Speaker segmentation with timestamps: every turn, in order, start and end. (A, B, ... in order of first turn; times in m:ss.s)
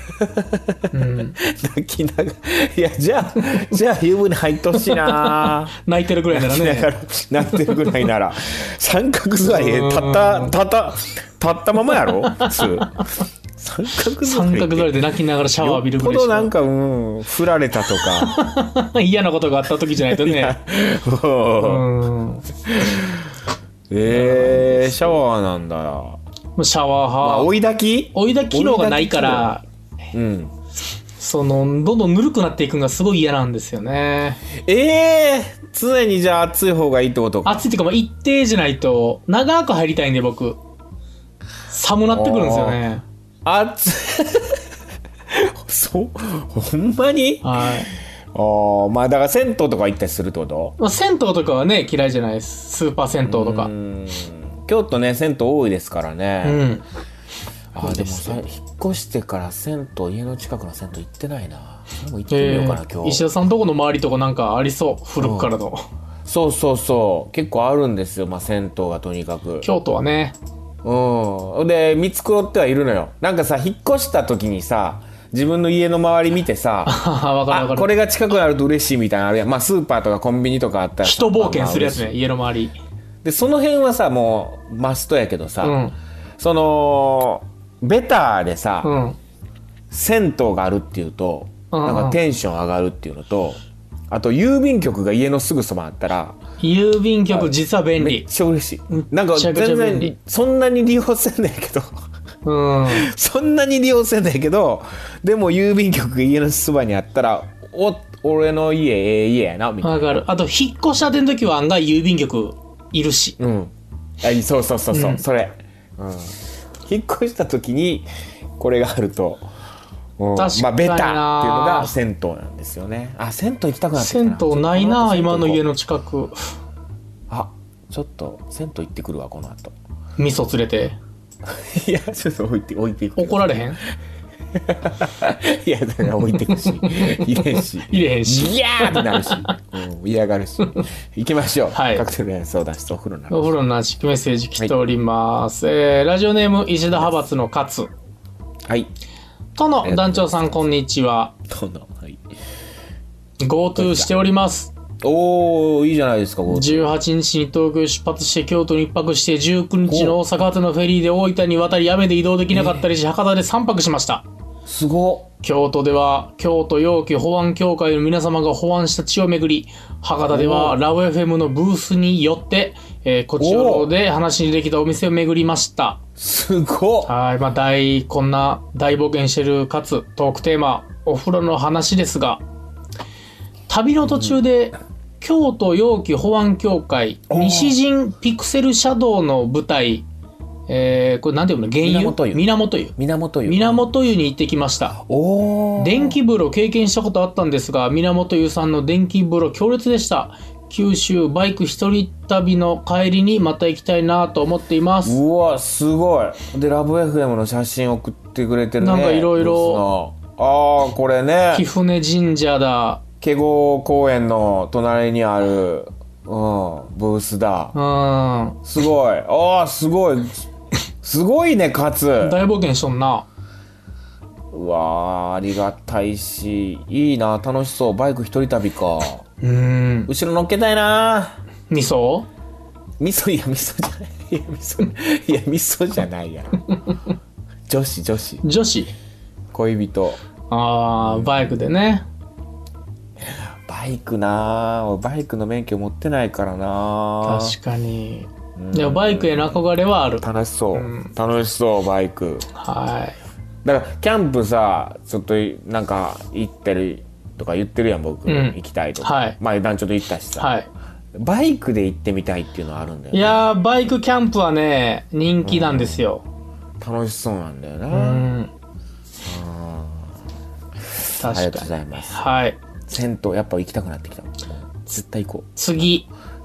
0:00.2-0:00.8 A
0:00.9-0:01.4 B
0:01.4-0:05.7 A
0:04.8-0:06.9 B
0:06.3-0:13.0 A
0:07.4-0:08.1 B
0:09.3-0:10.6 B
0:12.0-0:12.8 B
0:13.6-0:15.0 A
0:14.2-0:16.5 B
0:15.6-0:18.4 A
0:18.0-0:20.6 B
0:20.1-0:21.8 A
0:21.6-0:22.5 B
0:22.6-0:23.3 A
0:23.9-0:26.2 A
0:24.1-0:25.2 B
0:26.6-0:27.5 B
0:27.2-0:29.5 A
0:28.1-0:29.6 B
0:30.1-0:30.5 A
0:31.2-0:34.4 B
0:34.6-0:37.7 A
0:37.4-0:40.6 B
0:41.7-0:43.0 B
0:42.1-0:42.8 A
0:43.4-0:44.6 A
0:45.3-0:47.5 A
0:47.4-0:47.9 B
0:48.3-0:50.8 A
0:50.8-0:53.7 B
0:53.2-0:56.6 A
0:56.4-0:56.8 B
0:57.7-1:03.3 A
0:57.8-0:58.4 B
1:02.3-1:05.8 B
1:05.2-1:05.5 A
1:06.2-1:09.7 A
1:09.6-1:10.4 B
1:10.8-1:16.9 A
1:16.8-1:17.9 B
1:17.5-1:22.1 A
1:21.0-1:22.8 B
1:23.2-1:25.8 A
1:25.6-1:25.9 B
1:26.4-1:28.9 A
1:28.8-1:29.2 B
1:29.9-1:33.6 A
1:31.7-1:32.2 B
1:34.1-1:36.4 A
1:36.6-1:38.2 B
1:37.3-1:41.9 A
1:38.9-1:40.1 B
1:42.4-1:43.1 B
1:42.9-1:50.2 A
1:49.8-1:53.4 B
1:53.4-1:58.1 A
1:54.9-1:55.2 B
1:58.6-1:59.5 A
2:00.2-2:05.6 A
2:00.4-2:02.0 B
2:04.0-2:06.4 B
2:07.3-2:09.7 A
2:10.2-2:11.0 B
2:11.5-2:13.7 A
2:13.2-2:13.8 B
2:14.6-2:23.6 A
2:16.5-2:19.5 B
2:21.7-2:22.1 B
2:23.3-2:27.9 B
2:29.6-2:31.3 B
2:29.8-2:30.6 A
2:31.5-2:32.2 A
2:33.4-2:34.7 B
2:33.7-2:34.1 A
2:35.0-2:36.9 A
2:36.5-2:44.2 B
2:39.8-2:40.2 A
2:42.5-2:42.9 A
2:44.6-2:45.3 A
2:45.4-2:56.0 B
2:50.3-2:50.8 A
2:53.4-2:53.9 A
2:56.2-2:57.1 A
2:57.0-3:02.4 B
3:03.7-3:10.0 B
3:04.0-3:04.4 A
3:07.3-3:07.8 A
3:10.7-3:15.0 B
3:11.8-3:12.4 A
3:13.0-3:13.9 A
3:15.0-3:16.2 A
3:15.8-3:25.2 B
3:25.0-3:31.6 A
3:28.8-3:29.9 B
3:31.5-3:33.0 B
3:33.2-3:37.8 A
3:37.7-3:38.6 B
3:38.6-3:40.4 A
3:41.0-3:42.4 A
3:42.2-3:43.3 B
3:44.5-3:49.2 A
3:49.4-3:50.1 B
3:50.1-3:51.4 A
3:51.7-3:52.3 B
3:53.0-3:56.7 A
3:57.7-3:58.5 A
3:58.4-3:58.9 B
3:59.5-4:00.2 A
4:00.5-4:02.0 B
4:01.0-4:01.6 A
4:03.3-4:07.5 A
4:07.2-4:11.1 B
4:08.6-4:09.6 A
4:10.2-4:12.5 A
4:12.5-4:13.2 B
4:13.6-4:20.5 A
4:18.2-4:19.4 B
4:20.4-4:20.7 B
4:21.2-4:23.5 A
4:23.1-4:26.2 B
4:25.4-4:26.1 A
4:26.8-4:28.3 A
4:27.9-4:28.5 B
4:29.2-4:30.1 A
4:31.0-4:32.2 A
4:31.2-4:32.6 B
4:32.9-4:35.9 A
4:35.6-4:36.0 B